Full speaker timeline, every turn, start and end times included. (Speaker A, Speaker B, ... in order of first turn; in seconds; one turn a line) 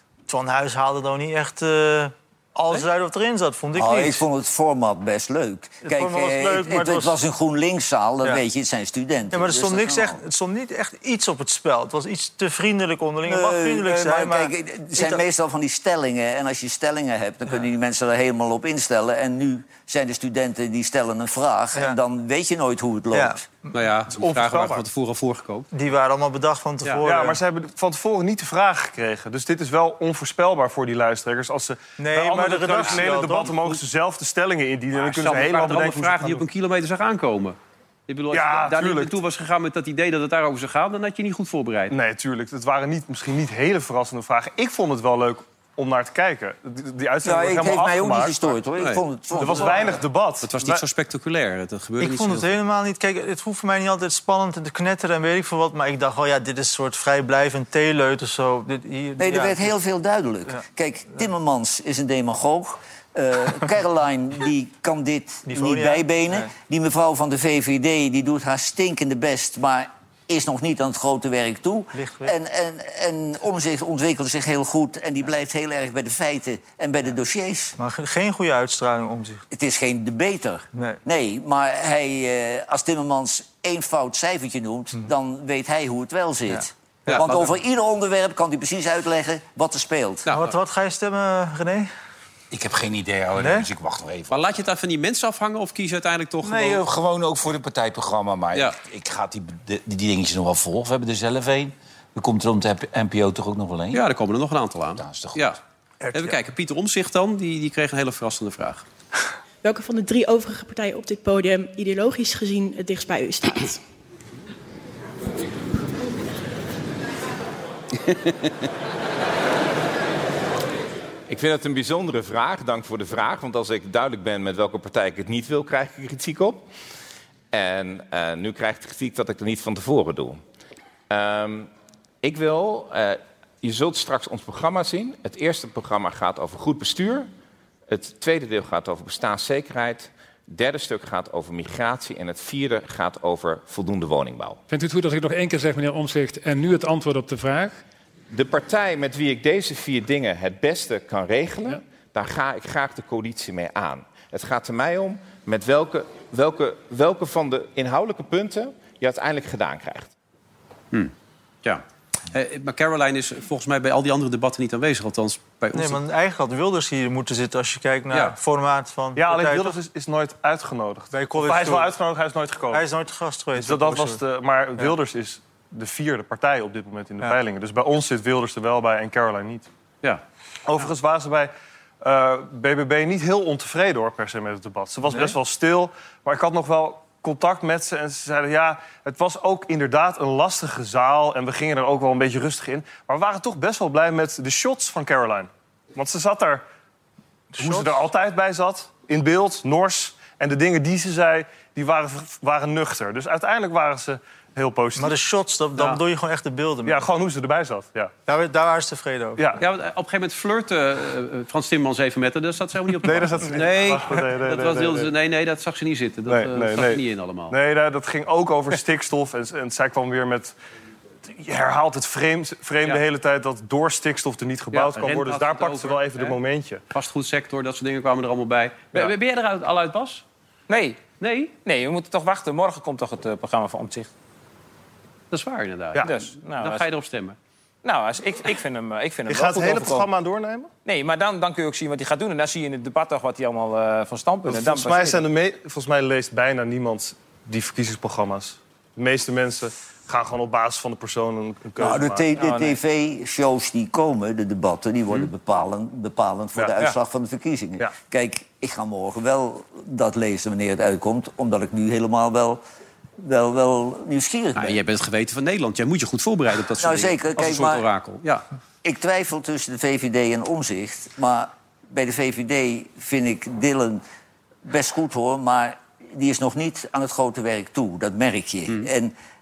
Speaker A: 0.3-4.2
Speaker B: 3.8-10.2
Speaker A: 5.8-7.1
Speaker A: 9.3-15.2
Speaker B: 13.2-23.4
Speaker A: 23.1-23.4
Speaker C: 23.7-25.7
Speaker D: 24.1-24.8
Speaker A: 25.7-27.4
Speaker D: 27.0-36.4
Speaker A: 32.0-33.8
Speaker C: 34.9-37.5
Speaker C: 38.1-41.9
Speaker D: 38.3-39.2
Speaker D: 41.9-48.4
Speaker B: 47.2-50.0
Speaker C: 48.8-49.5
Speaker D: 49.3-50.8
Speaker C: 50.4-52.5
Speaker A: 52.0-59.7
Speaker B: 59.2-77.8
Speaker A: 65.5-66.5
Speaker A: 71.9-72.3
Speaker A: 77.8-79.4
Speaker B: 79.5-90.3
Speaker C: 87.0-87.5
Speaker C: 90.2-90.5
Speaker A: 90.3-91.9
Speaker E: 92.5-94.3
Speaker A: 93.4-93.7
Speaker C: 94.3-96.8
Speaker E: 96.5-104.0
Speaker A: 96.5-96.8
Speaker C: 103.9-105.6
Speaker E: 105.0-105.6
Speaker A: 106.0-106.4
Speaker C: 106.1-108.8
Speaker F: 109.6-113.8
Speaker G: 121.3-126.7
Speaker G: 127.5-130.4
Speaker G: 131.1-131.7
Speaker G: 132.2-137.3
Speaker G: 137.9-144.6
Speaker H: 144.7-147.8
Speaker G: 148.3-160.1
Speaker C: 161.6-166.0
Speaker A: 165.7-169.7
Speaker D: 169.1-172.8
Speaker A: 171.1-171.9
Speaker A: 172.7-174.2
Speaker D: 173.6-179.7
Speaker D: 180.7-196.6
Speaker D: 197.6-205.2
Speaker A: 197.6-198.1
Speaker A: 205.0-207.0
Speaker D: 205.7-206.0
Speaker D: 206.8-208.1
Speaker A: 208.3-209.4
Speaker D: 209.4-209.6
Speaker C: 209.6-217.5
Speaker D: 213.0-215.1
Speaker D: 216.3-220.5
Speaker D: 221.2-226.8
Speaker C: 224.7-226.4
Speaker C: 226.9-230.2
Speaker I: 230.7-231.0
Speaker C: 231.2-231.5
Speaker I: 231.6-234.1
Speaker C: 235.3-237.3
Speaker I: 236.0-236.8
Speaker I: 237.8-240.1
Speaker D: 239.3-240.7
Speaker I: 240.8-245.2
Speaker D: 244.5-252.3
Speaker B: 251.8-262.6
Speaker I: 252.4-252.7
Speaker D: 256.6-256.9
Speaker B: 263.2-264.8
Speaker C: 264.6-268.4
Speaker B: 266.8-267.8
Speaker B: 268.8-274.0
Speaker B: 274.6-279.1